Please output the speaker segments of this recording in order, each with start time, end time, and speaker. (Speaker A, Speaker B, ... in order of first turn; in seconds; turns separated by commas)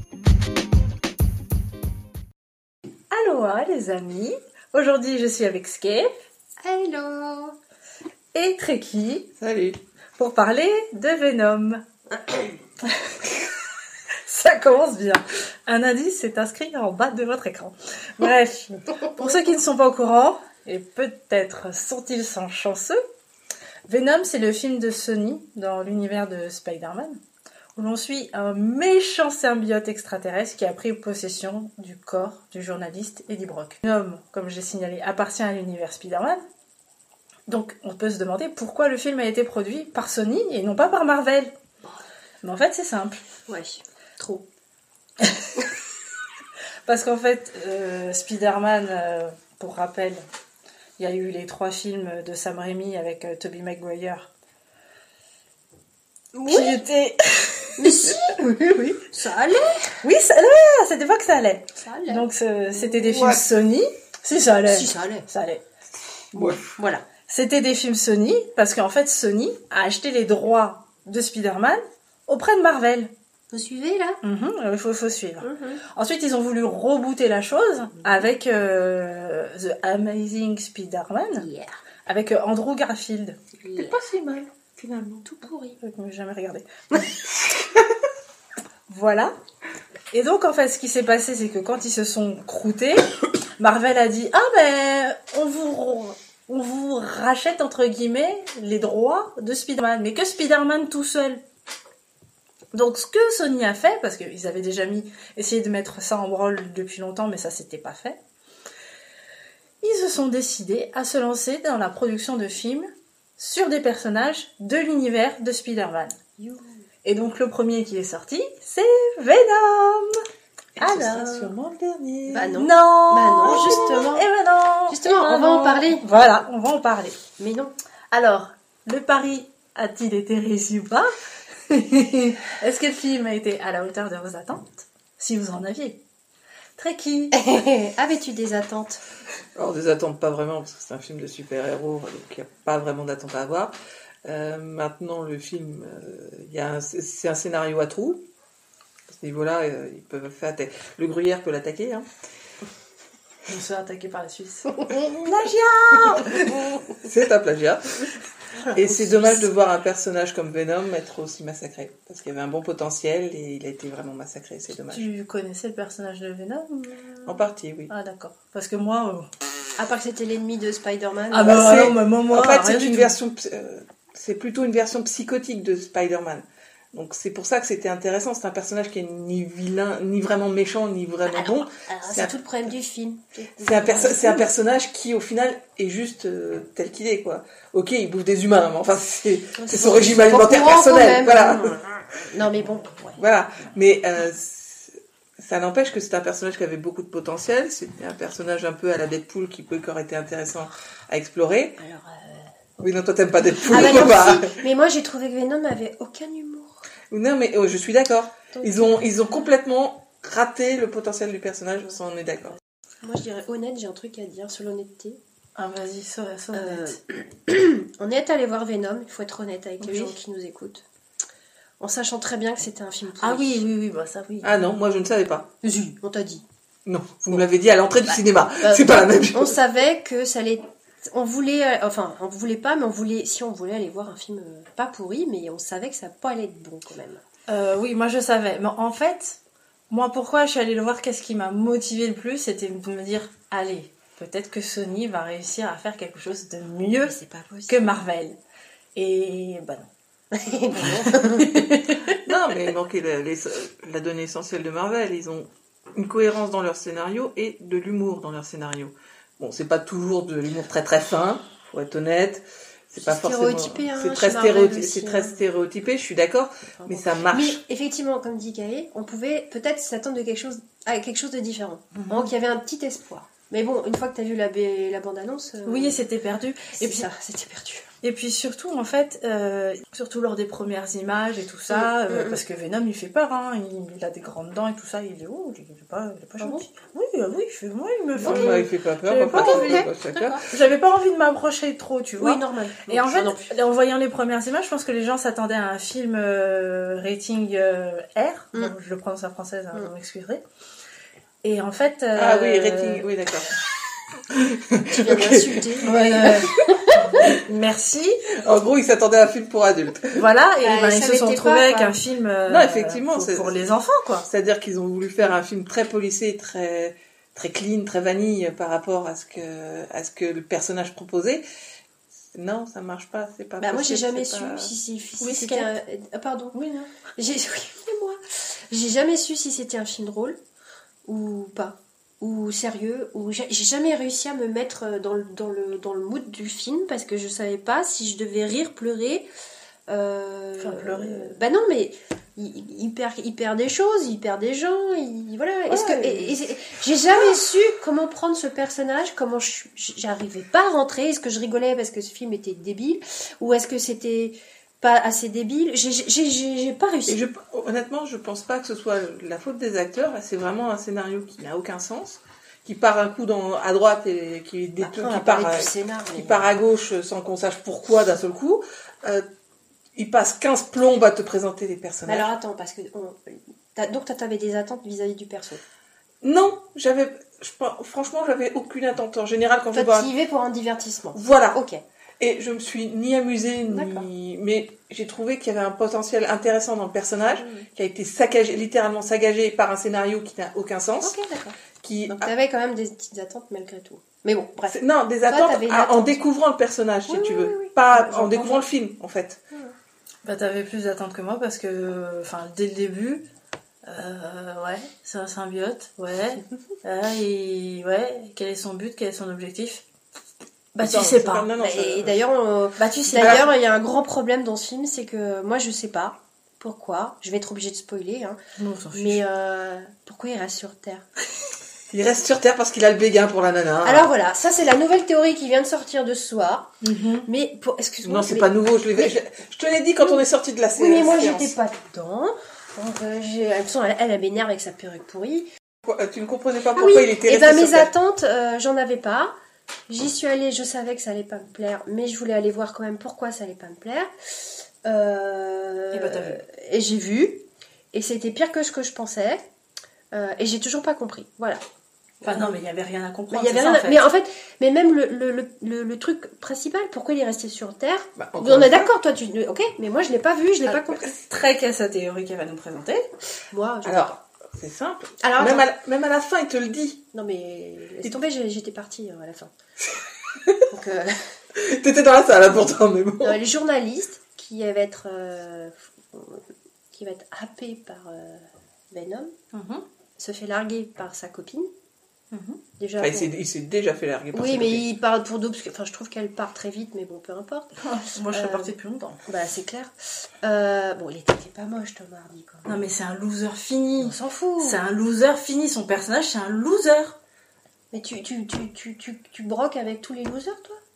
Speaker A: 3.1-6.1, Speaker B: 6.6-7.6, Speaker A: 8.3-9.3, Speaker C: 9.4-9.8, Speaker A: 10.2-11.8, Speaker A: 12.8-13.2, Speaker A: 14.2-23.0, Speaker A: 23.9-27.2, Speaker A: 27.8-36.4, Speaker A: 37.5-41.5, Speaker A: 42.4-43.2, Speaker B: 43.5-44.4, Speaker A: 45.2-45.7, Speaker A: 46.9-50.2, Speaker A: 51.0-54.3, Speaker B: 56.3-56.8, Speaker A: 56.5-58.4, Speaker B: 57.8-60.0, Speaker A: 60.0-65.6, Speaker B: 61.8-62.2, Speaker B: 62.9-63.2, Speaker C: 63.1-63.4, Speaker B: 64.7-65.3, Speaker C: 66.3-66.7, Speaker B: 66.6-67.0, Speaker A: 67.3-73.1, Speaker B: 73.5-74.2, Speaker A: 74.2-81.5, Speaker B: 75.4-75.8, Speaker B: 81.4-81.7, Speaker A: 82.1-83.4, Speaker B: 83.6-84.0, Speaker C: 83.8-85.2, Speaker B: 85.2-85.8, Speaker A: 85.8-87.1, Speaker A: 88.9-89.3, Speaker A: 90.1-101.4, Speaker A: 102.7-108.2, Speaker A: 109.8-116.2, Speaker B: 116.4-116.9, Speaker A: 117.0-120.2, Speaker C: 120.8-122.6, Speaker A: 120.8-121.5, Speaker B: 122.3-124.3, Speaker A: 122.5-127.2, Speaker B: 124.9-126.0, Speaker B: 127.4-127.8, Speaker A: 128.1-131.1, Speaker A: 131.7-136.0, Speaker A: 136.8-137.6, Speaker B: 137.3-139.0, Speaker C: 139.6-143.7, Speaker C: 144.2-148.2, Speaker C: 149.1-152.1, Speaker A: 153.4-156.7, Speaker C: 156.9-158.1, Speaker A: 158.7-159.1, Speaker C: 158.7-165.1, Speaker A: 164.9-169.3, Speaker C: 167.3-167.9, Speaker B: 169.8-172.0, Speaker A: 171.3-173.2, Speaker C: 171.5-182.4, Speaker B: 181.3-184.5, Speaker C: 183.6-192.0, Speaker B: 189.6-193.2, Speaker C: 193.2-201.8, Speaker B: 201.8-202.9, Speaker C: 202.8-204.6, Speaker B: 203.6-206.9, Speaker C: 207.1-212.6, Speaker B: 208.5-209.1, Speaker B: 213.0-215.2, Speaker A: 215.6-217.0, Speaker B: 216.5-220.8, Speaker A: 219.8-220.2, Speaker B: 221.8-223.7, Speaker A: 223.2-224.7, Speaker C: 224.4-225.5, Speaker B: 225.6-226.4, Speaker C: 226.9-229.6, Speaker B: 228.1-237.2, Speaker A: 237.5-239.4, Speaker A: 239.9-247.2, Speaker B: 247.0-248.0, Speaker A: 247.7-248.4, Speaker A: 249.0-249.9, Speaker B: 250.3-252.2, Speaker A: 250.8-251.7, Speaker C: 252.1-267.6, Speaker B: 263.0-265.4, Speaker B: 266.8-276.1, Speaker A: 271.9-272.3, Speaker A: 275.6-277.1, Speaker B: 276.7-277.9, Speaker A: 278.0-300.4, Speaker B: 281.7-282.4, Speaker B: 286.4-286.6, Speaker C: 288.2-290.4, Speaker B: 288.2-288.5, Speaker B: 289.3-290.4, Speaker B: 292.2-293.6, Speaker A: 301.4-303.1, Speaker C: 302.1-303.5, Speaker C: 304.3-305.7, Speaker B: 304.9-307.2, Speaker A: 305.8-308.2, Speaker C: 308.4-310.2, Speaker A: 310.1-314.3, Speaker B: 310.6-312.0, Speaker C: 312.5-313.7, Speaker C: 314.3-321.4, Speaker C: 322.3-324.7, Speaker B: 323.6-326.6, Speaker A: 325.2-325.7, Speaker A: 326.5-326.9, Speaker B: 327.2-330.4, Speaker B: 331.1-339.3, Speaker B: 339.9-357.2, Speaker A: 340.6-341.4, Speaker A: 345.7-346.4, Speaker C: 357.1-369.3, Speaker B: 364.8-366.5, Speaker C: 369.9-372.3, Speaker B: 372.1-375.6, Speaker C: 376.2-380.1, Speaker B: 379.7-381.8, Speaker C: 381.1-381.6, Speaker C: 382.2-391.2, Speaker B: 383.7-384.1, Speaker B: 387.4-387.7, Speaker B: 391.0-396.2, Speaker C: 391.8-392.3, Speaker C: 394.7-399.4, Speaker B: 397.1-397.8, Speaker A: 397.9-398.6, Speaker A: 400.2-403.2, Speaker A: 403.9-409.9, Speaker A: 410.8-411.5, Speaker C: 410.8-412.2, Speaker B: 411.6-418.4, Speaker A: 412.8-413.5, Speaker C: 413.2-413.4, Speaker A: 418.6-419.2, Speaker B: 418.9-421.1, Speaker C: 421.9-424.1, Speaker B: 423.8-429.2, Speaker A: 426.8-427.3, Speaker C: 428.0-431.6, Speaker B: 430.8-435.5, Speaker C: 435.8-437.9, Speaker B: 436.8-439.3, Speaker B: 439.9-449.4, Speaker A: 445.9-446.4, Speaker B: 450.1-451.6, Speaker B: 452.2-452.6, Speaker A: 452.2-454.1, Speaker B: 453.3-461.2, Speaker C: 458.2-458.9, Speaker A: 461.2-463.1, Speaker B: 463.5-464.2, Speaker C: 463.8-467.0, Speaker B: 465.2-465.7, Speaker B: 467.1-469.5, Speaker C: 470.4-470.7, Speaker B: 470.7-471.3, Speaker C: 471.6-473.4, Speaker B: 473.2-479.3, Speaker A: 479.5-479.9, Speaker B: 480.2-481.7, Speaker A: 482.3-482.6, Speaker B: 482.8-483.3, Speaker C: 483.0-484.8, Speaker B: 484.3-487.7, Speaker A: 487.8-489.2, Speaker B: 488.3-488.7, Speaker B: 489.3-492.7, Speaker A: 492.7-497.2, Speaker B: 494.0-494.8, Speaker B: 497.9-500.8